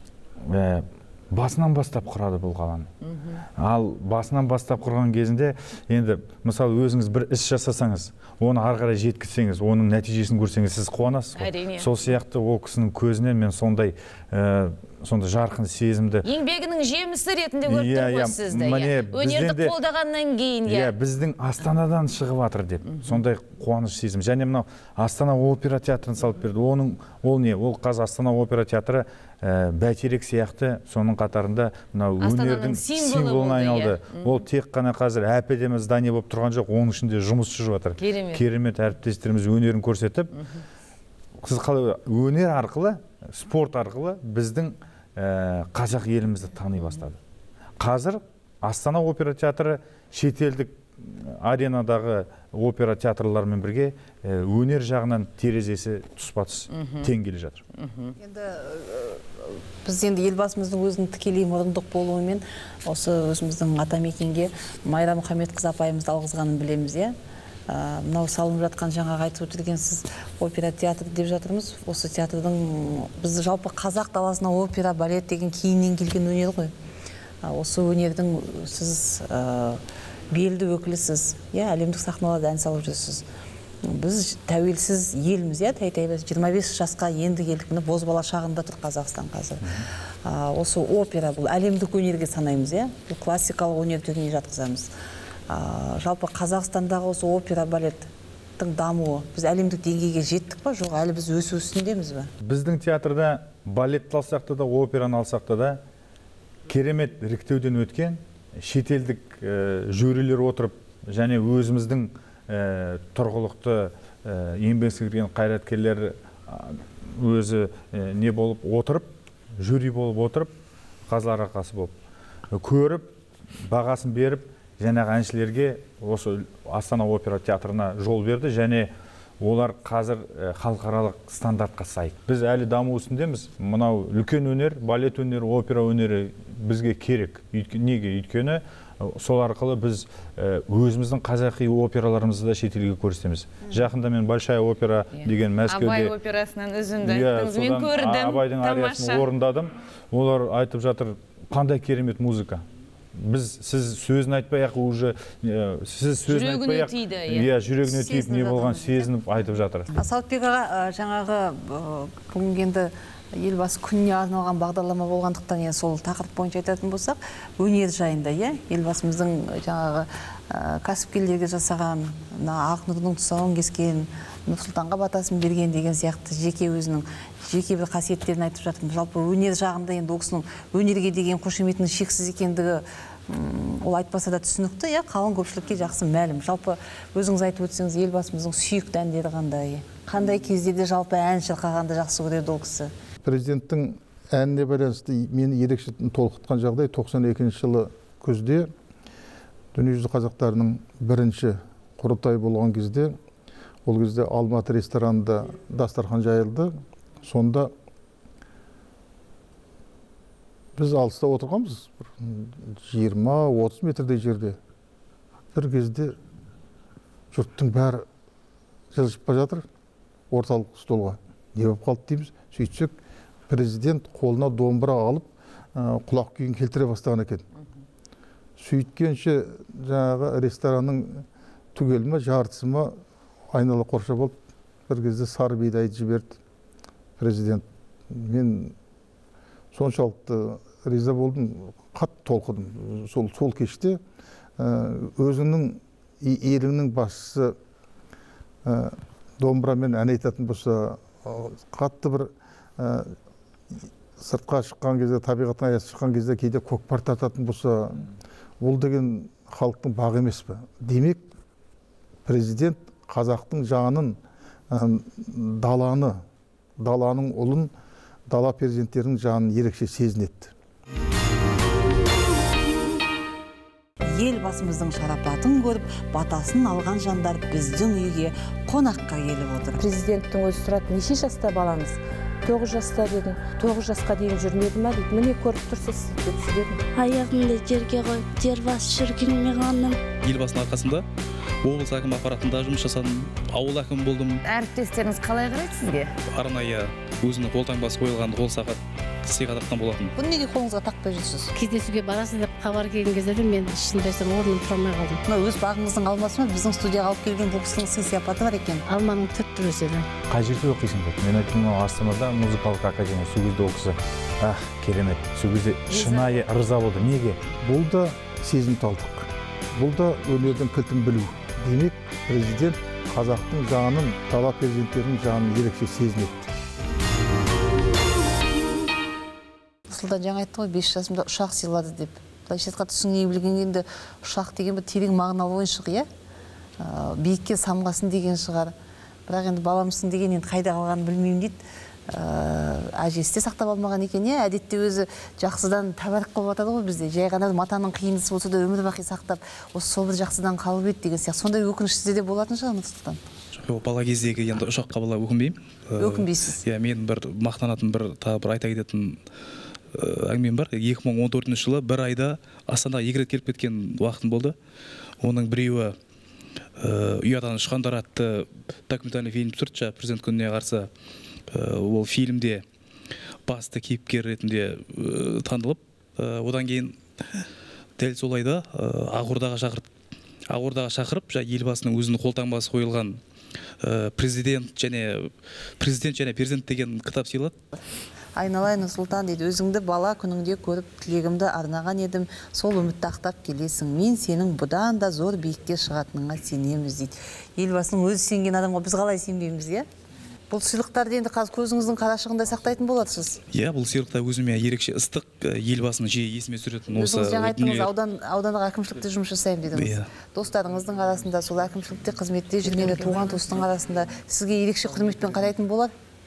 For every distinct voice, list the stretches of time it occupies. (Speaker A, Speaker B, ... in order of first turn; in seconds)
Speaker A: 0.4-2.9, 3.6-16.3, 17.6-19.8, 20.6-40.3, 41.4-47.2, 47.8-57.6, 102.4-105.8, 106.7-120.5, 121.1-121.9, 122.5-123.1, 123.7-128.9, 129.4-146.1, 147.0-152.6, 153.2-159.9, 310.3-317.4
Speaker B: 3.1-3.3, 11.3-11.9, 16.2-20.9, 22.9-23.2, 32.2-34.4, 38.0-38.4, 56.7-57.1, 57.7-58.1, 145.1-149.3, 156.3-157.5, 294.4-296.1, 315.9-316.4, 412.6-413.4
Speaker C: 58.2-67.1, 67.7-76.7, 77.4-83.2, 83.8-94.9, 95.5-102.3, 157.8-159.1, 159.9-192.9, 274.1-279.8, 300.1-301.5, 305.3-308.8, 329.9-336.1, 336.8-338.7, 339.3-341.6, 342.1-353.2, 356.0-356.6, 388.4-399.9, 400.5-403.4, 406.9-415.9
Speaker D: 193.2-198.7, 199.7-203.2, 203.8-207.7, 210.8-214.6, 215.5-216.2, 217.3-218.0, 218.9-219.7, 220.3-222.9, 223.5-227.4, 228.6-233.0, 233.5-234.3, 234.9-236.4, 237.2-238.7, 239.7-244.0, 244.6-247.6, 248.6-253.2, 254.2-258.1, 258.6-261.2, 262.2-264.2, 264.7-266.2, 266.8-267.7, 268.3-270.5, 317.6-326.5
Speaker E: 279.8-286.8
Speaker F: 286.9-290.0
Speaker G: 290.2-291.1, 291.6-294.4, 296.3-300.1, 353.5-359.2, 359.9-364.5, 365.2-365.9, 366.8-370.9, 371.5-372.6, 373.5-377.4, 378.0-379.8, 380.5-383.2, 383.8-387.5, 403.5-407.9, 409.7-410.1
Speaker H: 301.5-305.2, 308.9-310.1